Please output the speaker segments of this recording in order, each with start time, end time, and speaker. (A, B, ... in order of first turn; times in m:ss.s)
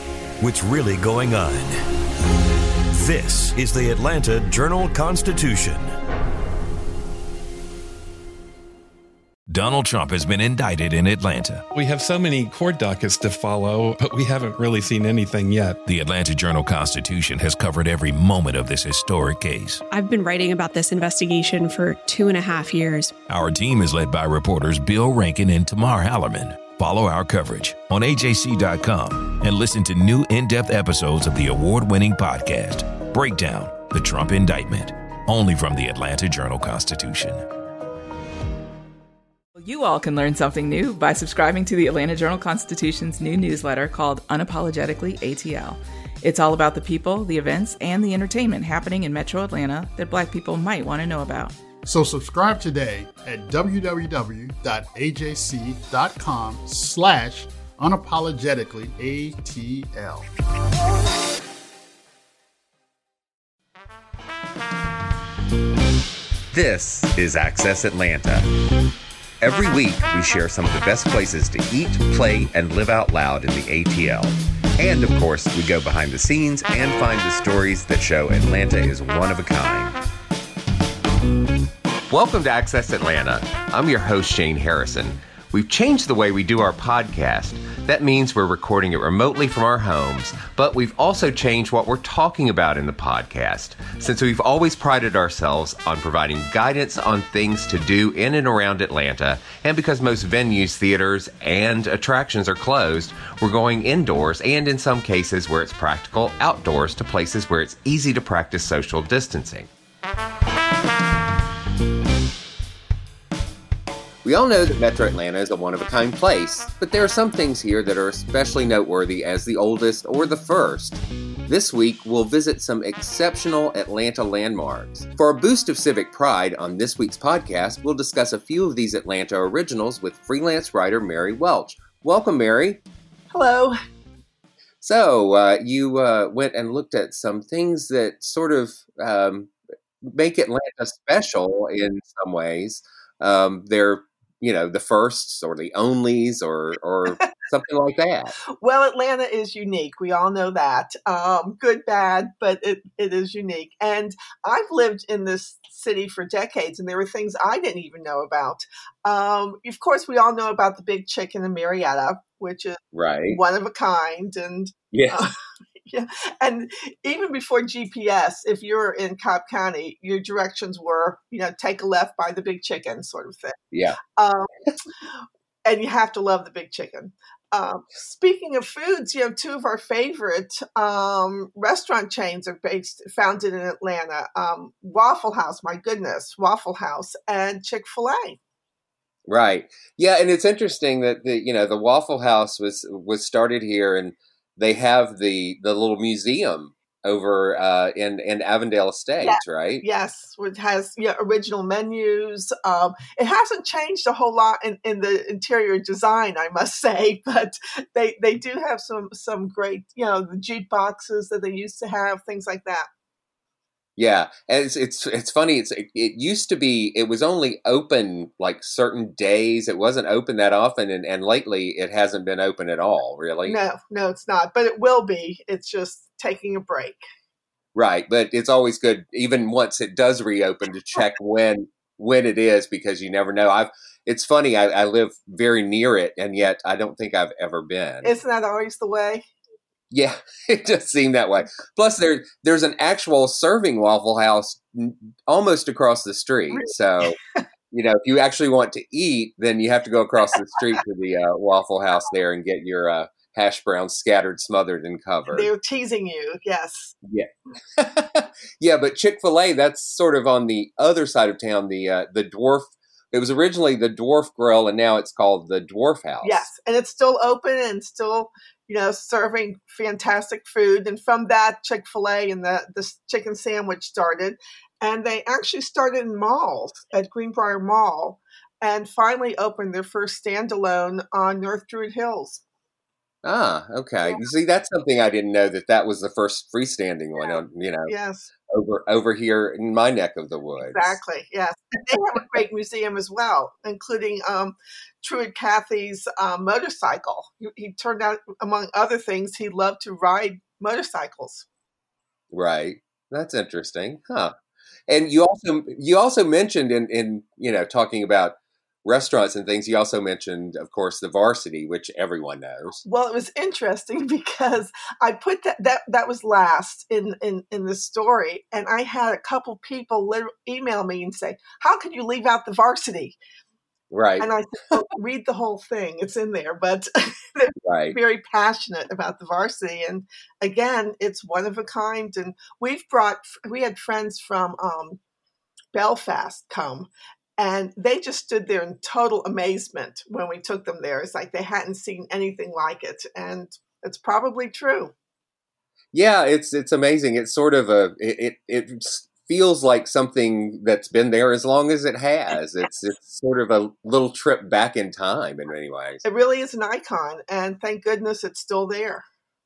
0:00.4-0:01.8 A
0:02.9-0:05.9 A
0:09.5-0:11.6 A
0:11.7-0:15.8 B
0:15.8-0:19.8 A
0:19.9-0:23.2 C
0:23.3-0:37.4 A
0:39.6-0:51.5 D
0:51.8-1:00.2 E
1:06.5-1:08.5 F
1:09.4-1:20.0 F
1:22.1-1:49.7 F
1:54.2-2:12.8 F
2:13.3-2:13.8 G
2:14.8-2:28.3 F
2:28.6-2:53.6 G
2:42.9-2:43.4 F
2:44.9-2:45.3 F
2:53.7-2:54.0 F
2:54.1-2:54.5 G
2:55.7-3:08.4 G
3:09.3-3:19.8 F
3:19.2-3:32.9 G
3:34.0-3:43.6 F
3:43.4-3:47.0 G
3:47.8-3:58.1 F
3:58.0-3:59.3 G
3:59.9-4:07.2 F
4:06.5-4:07.4 G
4:07.7-4:15.5 F
4:15.3-4:17.0 G
4:17.0-4:26.5 F
4:26.2-4:42.4 G
4:43.2-4:47.9 F
4:47.2-4:48.3 G
4:48.5-4:51.0 F
4:50.6-5:01.5 G
5:02.3-5:04.4 F
5:04.9-5:12.8 F
5:12.8-5:23.2 G
5:23.9-5:24.7 F
5:24.2-5:35.0 G
5:27.6-5:28.0 F
5:35.7-5:44.9 G
5:45.9-5:56.0 F
5:56.0-5:59.0 G